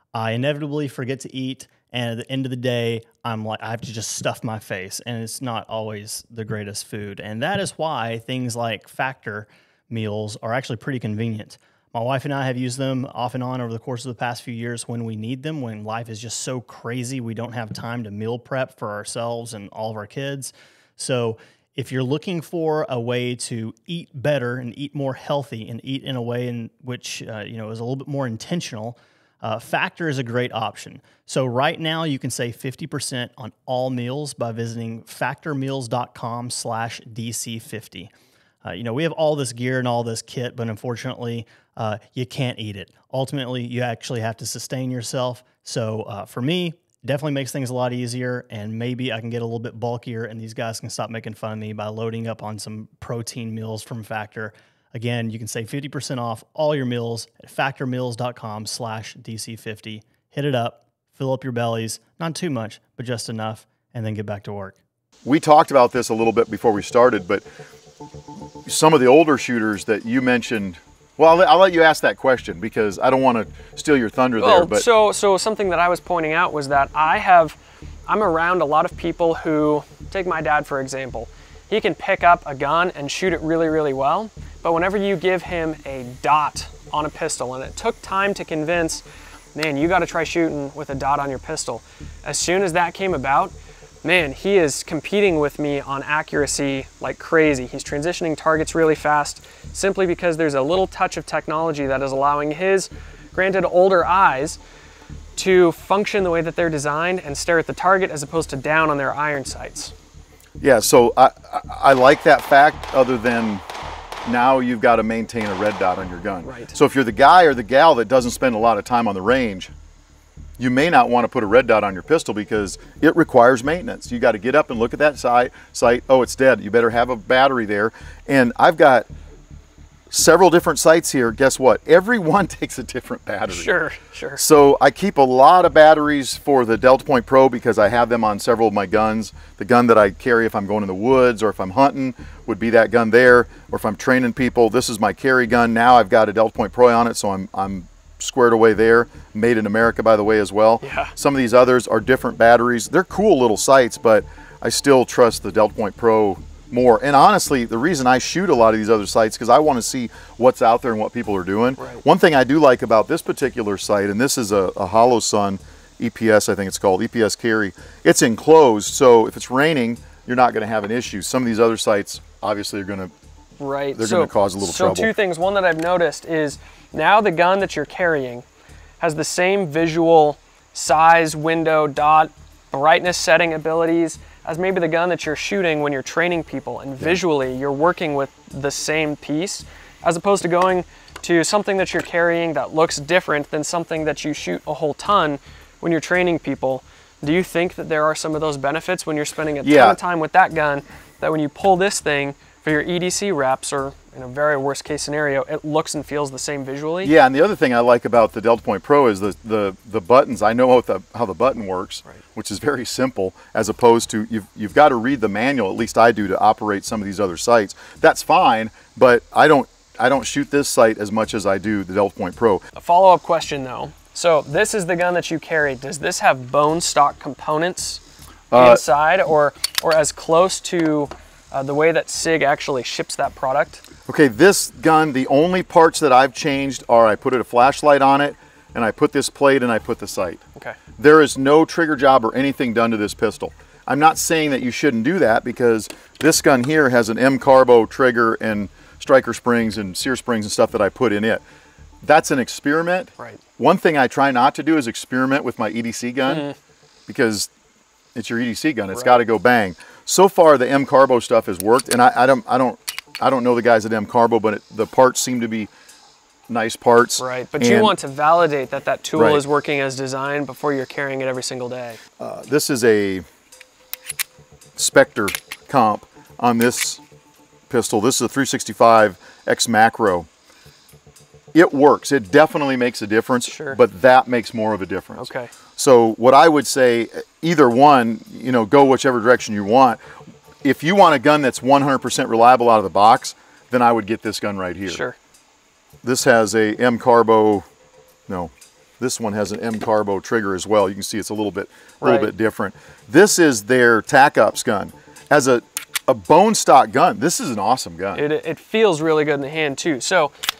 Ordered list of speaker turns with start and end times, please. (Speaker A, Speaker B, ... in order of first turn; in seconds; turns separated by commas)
Speaker A: 0.1-38.1, Speaker A: 38.6-64.8, Speaker B: 65.2-67.4, Speaker B: 68.7-74.9, Speaker C: 74.4-104.6, Speaker C: 105.3-109.9, Speaker B: 110.6-113.6, Speaker B: 114.2-119.7, Speaker C: 116.4-116.7, Speaker B: 120.6-129.1, Speaker B: 130.1-133.7, Speaker C: 133.5-134.4, Speaker B: 134.4-173.1, Speaker C: 150.8-151.1, Speaker C: 173.6-178.4, Speaker B: 173.9-175.1, Speaker C: 179.0-207.1, Speaker B: 199.6-200.0, Speaker B: 207.0-222.6, Speaker C: 222.8-228.0, Speaker B: 228.5-228.8, Speaker C: 228.5-233.8, Speaker B: 234.1-240.4, Speaker B: 241.0-251.4, Speaker B: 252.0-256.5, Speaker C: 256.2-256.5, Speaker B: 257.1-257.5, Speaker B: 258.1-265.7, Speaker C: 258.9-259.2, Speaker B: 266.5-267.9, Speaker C: 267.2-272.0, Speaker B: 269.1-269.4, Speaker B: 272.2-273.2, Speaker B: 274.8-277.0, Speaker B: 277.7-280.3, Speaker B: 281.5-290.0, Speaker C: 283.4-283.8, Speaker C: 285.2-285.5, Speaker B: 290.6-295.0, Speaker C: 294.9-295.1, Speaker B: 296.0-297.6, Speaker B: 298.3-308.2, Speaker C: 302.0-302.3, Speaker C: 308.1-310.3